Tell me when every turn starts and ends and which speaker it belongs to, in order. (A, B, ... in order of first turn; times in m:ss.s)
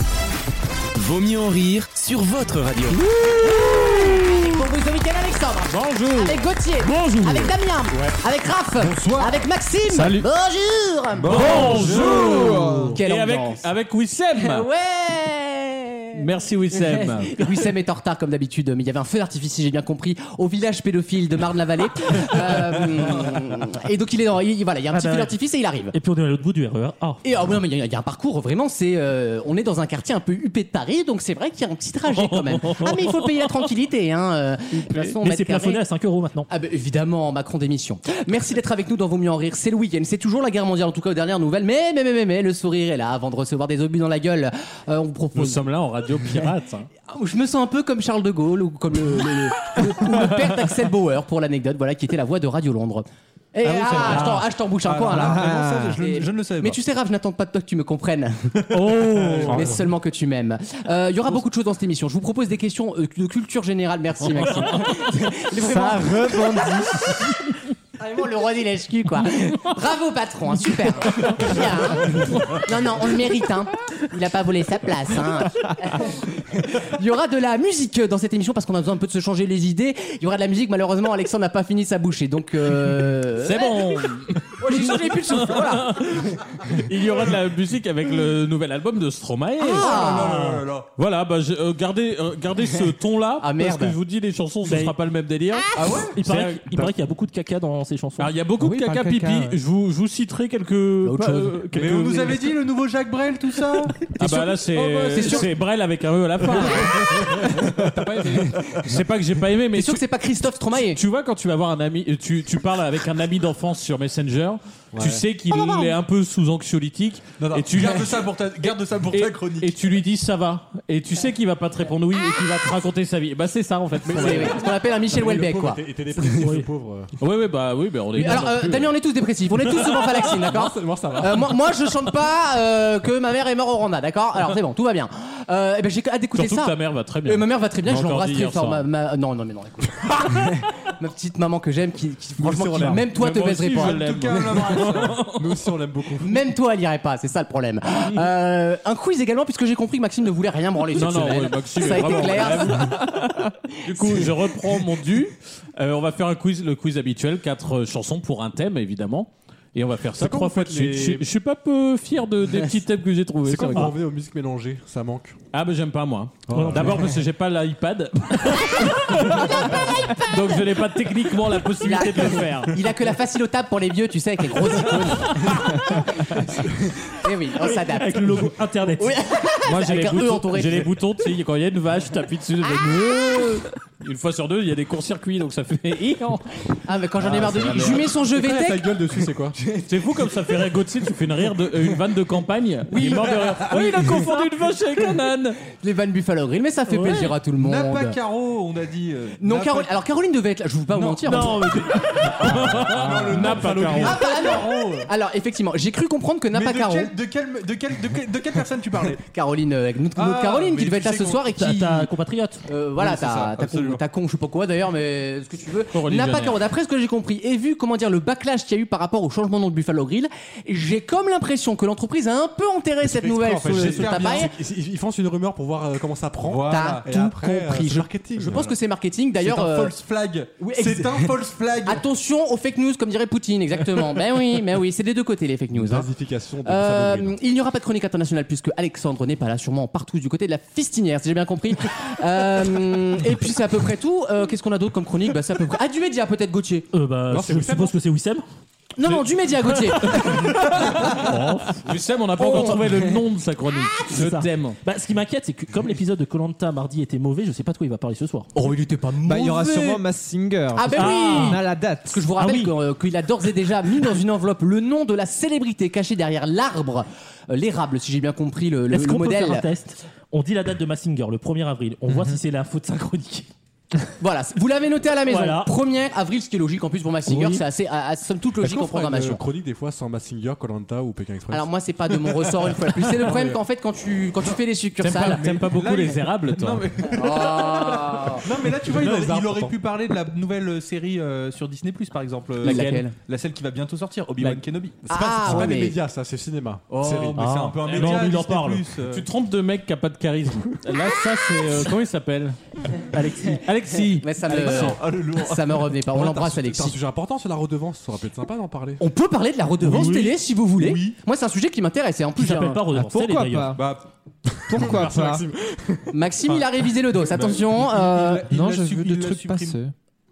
0:01.0-0:03.0 A
0:03.1-0:04.5 B
0:03.4-0:12.4 C
0:05.7-0:08.1 B
0:09.0-0:09.3 D
0:09.9-0:10.3 B
0:11.3-0:12.2 D
0:11.3-0:14.7 B
0:11.4-0:13.0 E
0:11.4-0:12.1 F
0:13.0-0:13.6 C
0:14.4-0:16.2 C
0:16.1-0:17.5 B
0:16.7-0:25.9 C
0:24.9-0:25.3 G
0:25.9-0:27.2 G
0:27.2-0:35.8 C
0:32.1-0:33.5 B
0:34.9-0:36.5 G
0:36.5-0:45.6 C
0:45.4-0:46.9 B
0:47.1-0:58.6 C
0:53.6-0:56.8 D
0:53.8-0:54.4 B
0:55.1-0:56.0 E
0:58.8-0:59.8 D
0:58.9-0:59.5 G
0:59.3-0:59.8 B
0:59.5-1:07.3 C
1:04.3-1:04.9 B
1:05.6-1:07.0 E
1:08.0-1:24.0 C
1:23.4-1:35.7 B
1:24.6-1:26.6 C
1:29.6-1:30.4 C
1:29.7-1:30.9 D
1:33.4-1:34.0 C
1:34.7-1:34.9 G
1:35.7-1:36.2 D
1:36.2-1:38.3 G
1:36.2-1:36.5 B
1:38.2-1:42.4 B
1:38.6-1:39.6 E
1:41.0-1:42.2 C
1:41.7-1:45.5 D
1:44.0-1:47.6 B
1:45.1-1:45.5 C
1:46.6-1:47.2 C
1:46.6-1:48.8 D
1:48.8-1:50.0 B
1:49.8-1:51.0 C
1:50.7-1:58.2 B
1:55.5-1:55.9 C
1:57.4-1:59.8 D
1:59.1-2:04.6 B
2:04.1-2:07.1 F
2:04.2-2:06.5 C
2:06.4-2:06.7 G
2:07.2-2:08.9 B
2:08.2-2:24.6 C
2:09.7-2:11.6 F
2:16.4-2:18.8 B
2:22.4-2:23.0 F
2:22.8-2:23.0 D
2:23.0-2:25.6 B
2:23.7-2:25.3 D
2:24.3-2:26.4 F
2:26.2-2:33.0 C
2:30.9-2:44.0 B
2:33.9-2:34.3 C
2:40.2-2:41.2 F
2:43.4-2:45.4 F
2:45.5-2:52.8 B
2:46.5-2:47.1 F
2:46.5-2:46.9 G
2:51.8-3:01.0 C
2:54.7-2:56.4 B
2:57.9-2:59.2 G
2:59.6-3:06.4 B
3:02.8-3:03.2 C
3:06.9-3:09.0 C
3:07.2-3:09.6 F
3:09.8-3:15.6 B
3:12.9-3:14.4 C
3:15.7-3:18.2 C
3:17.0-3:17.3 G
3:17.5-3:19.9 D
3:19.4-3:21.6 C
3:20.9-3:25.1 D
3:21.2-3:22.4 G
3:21.7-3:24.2 B
3:23.2-3:24.0 F
3:23.6-3:24.0 G
3:24.0-3:27.2 C
3:26.5-3:29.2 D
3:29.2-3:32.1 C
3:30.2-3:31.5 D
3:31.5-3:32.6 G
3:32.6-3:44.5 C
3:33.0-3:34.0 D
3:35.9-3:36.6 B
3:43.1-3:48.7 F
3:43.4-3:44.5 D
3:46.4-3:47.1 D
3:46.7-3:50.0 C
3:49.4-3:52.0 D
3:50.6-3:56.1 C
3:55.7-3:57.4 F
3:56.6-4:06.9 C
4:06.9-4:08.4 G
4:07.3-4:07.9 F
4:07.4-4:07.8 D
4:09.0-4:11.2 C
4:10.0-4:14.8 B
4:12.4-4:13.2 C
4:14.1-4:18.5 G
4:18.6-4:20.0 C
4:19.2-4:22.3 E
4:20.8-4:29.7 C
4:21.0-4:21.6 G
4:22.4-4:22.7 G
4:28.9-4:33.5 G
4:32.1-4:32.4 E
4:34.2-4:39.4 C
4:35.3-4:35.7 G
4:37.3-4:37.6 G
4:38.6-4:41.7 F
4:41.5-4:45.4 C
4:45.0-4:46.9 B
4:45.3-4:55.7 D
4:47.1-4:48.4 C
4:48.7-4:49.8 F
4:52.6-4:53.1 B
4:52.6-4:53.1 C
4:55.1-4:58.2 F
4:55.1-4:56.0 C
4:56.9-4:59.3 D
4:57.4-5:02.6 B
4:57.4-4:57.8 G
5:03.1-5:04.0 G
5:03.6-5:05.0 B
5:04.2-5:07.0 C
5:04.5-5:05.9 D
5:06.1-5:09.0 F
5:09.0-5:12.8 C
5:09.9-5:10.3 G
5:09.9-5:11.2 D
5:12.4-5:13.8 G
5:12.9-5:13.8 E
5:13.7-5:14.0 D
5:14.7-5:16.6 F
5:14.7-5:15.4 E
5:16.1-5:18.4 C
5:17.3-5:19.8 D
5:18.5-5:19.9 E